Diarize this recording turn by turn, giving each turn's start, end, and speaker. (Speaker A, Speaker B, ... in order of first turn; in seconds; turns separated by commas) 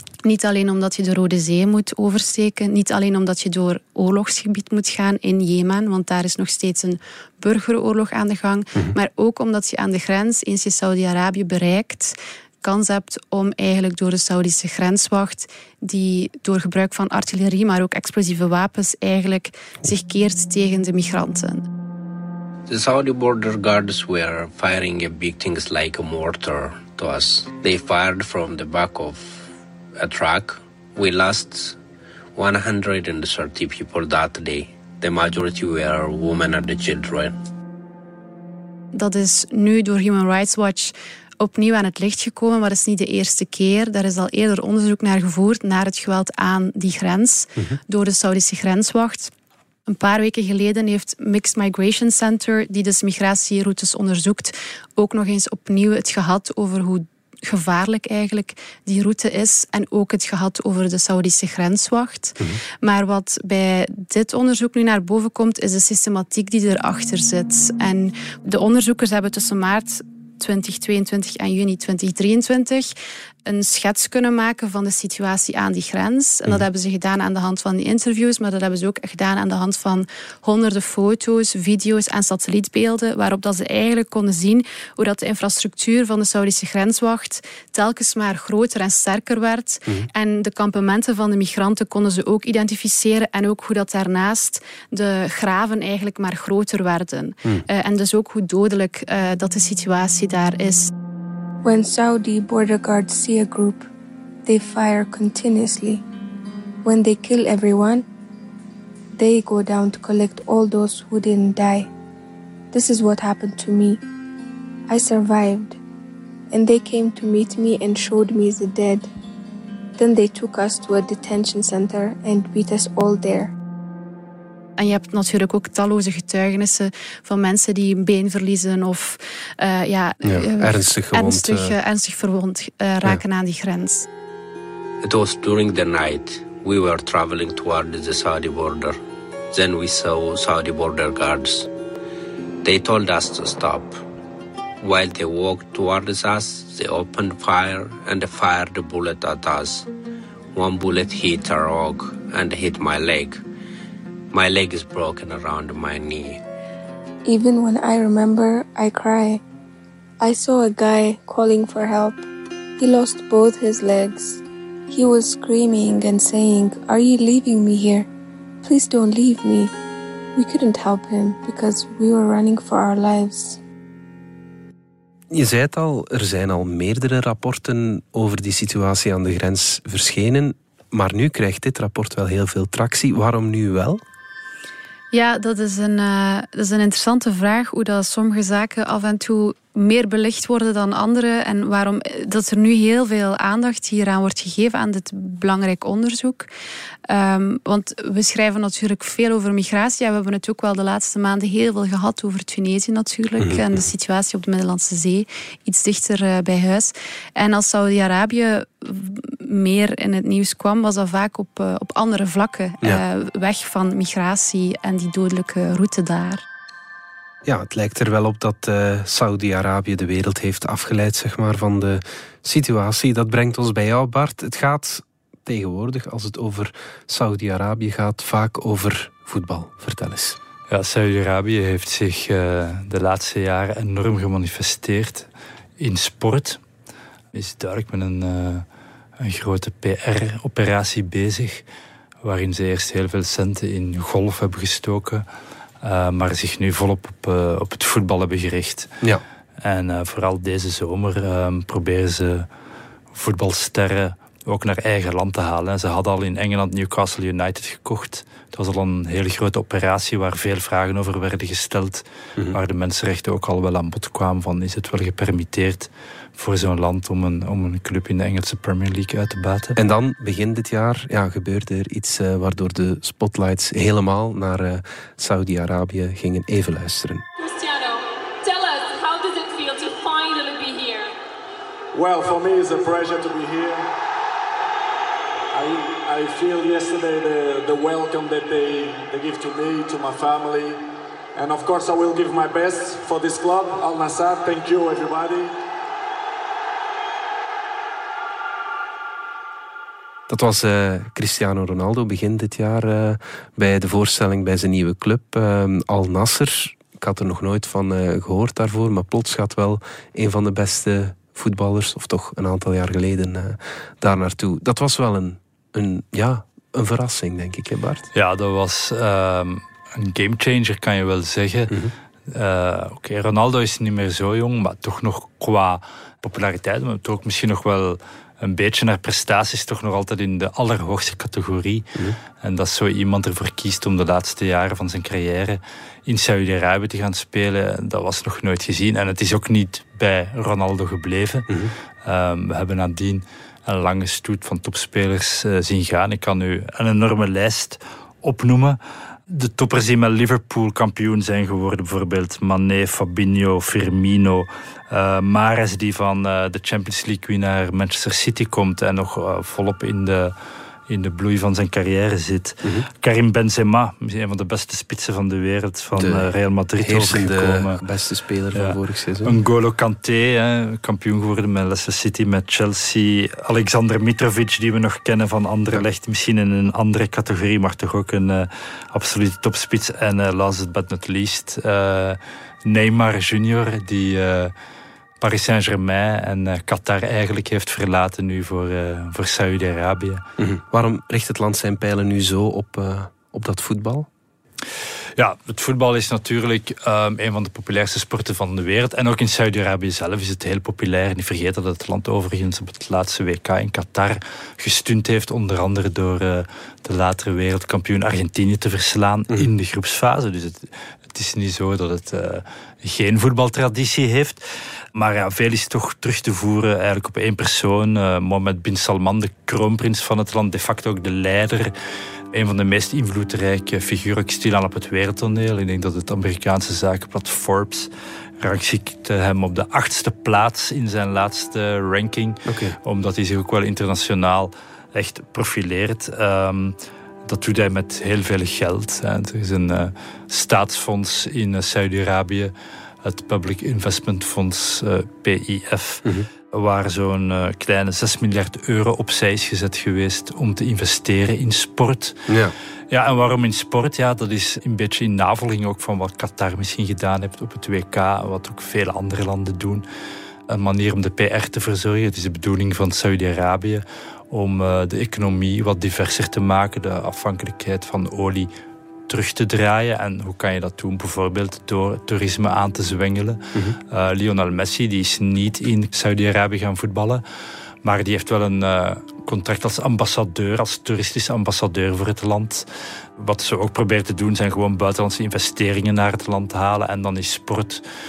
Speaker A: 0.2-21.6, Speaker B: 22.7-31.8, Speaker B: 32.4-37.4, Speaker A: 38.9-49.3, Speaker A: 49.9-72.9, Speaker A: 73.5-100.9, Speaker C: 101.6-103.9, Speaker C: 104.5-106.0, Speaker C: 106.8-108.0, Speaker C: 109.1-111.9, Speaker C: 112.7-114.0, Speaker C: 114.9-115.8, Speaker C: 116.5-119.1, Speaker C: 120.0-123.5, Speaker A: 124.8-134.1, Speaker D: 130.2-131.8, Speaker B: 135.0-139.0, Speaker B: 139.5-141.7, Speaker B: 142.6-144.0, Speaker B: 144.8-149.9, Speaker B: 150.5-153.4, Speaker B: 154.3-156.4, Speaker C: 157.2-159.4, Speaker C: 160.2-162.2, Speaker C: 162.8-168.1, Speaker C: 168.6-169.7, Speaker C: 170.3-173.6, Speaker D: 175.3-184.0, Speaker A: 185.1-196.5, Speaker A: 197.1-216.4, Speaker D: 203.4-203.8, Speaker D: 217.4-230.4, Speaker E: 230.7-235.3, Speaker E: 235.8-236.6, Speaker E: 237.3-238.6, Speaker E: 239.2-241.6, Speaker E: 242.2-245.2, Speaker E: 245.8-248.9, Speaker E: 249.6-252.5, Speaker E: 253.1-269.8, Speaker D: 269.8-277.2, Speaker F: 277.4-281.1, Speaker G: 281.9-283.9, Speaker G: 285.5-295.6, Speaker D: 300.3-318.0, Speaker E: 318.1-321.7, Speaker E: 322.3-341.5, Speaker E: 342.0-360.3, Speaker E: 360.9-367.8, Speaker D: 365.9-369.4, Speaker E: 368.5-384.5, Speaker E: 385.2-390.2, Speaker D: 390.4-394.1, Speaker E: 395.2-414.4, Speaker E: 414.9-421.7, Speaker E: 422.3-427.9, Speaker E: 428.4-442.5, Speaker D: 432.4-432.8, Speaker E: 443.0-452.2, Speaker D: 452.3-452.5, Speaker E: 452.9-459.8, Speaker E: 460.5-468.5, Speaker E: 469.1-477.2, Speaker E: 477.8-487.8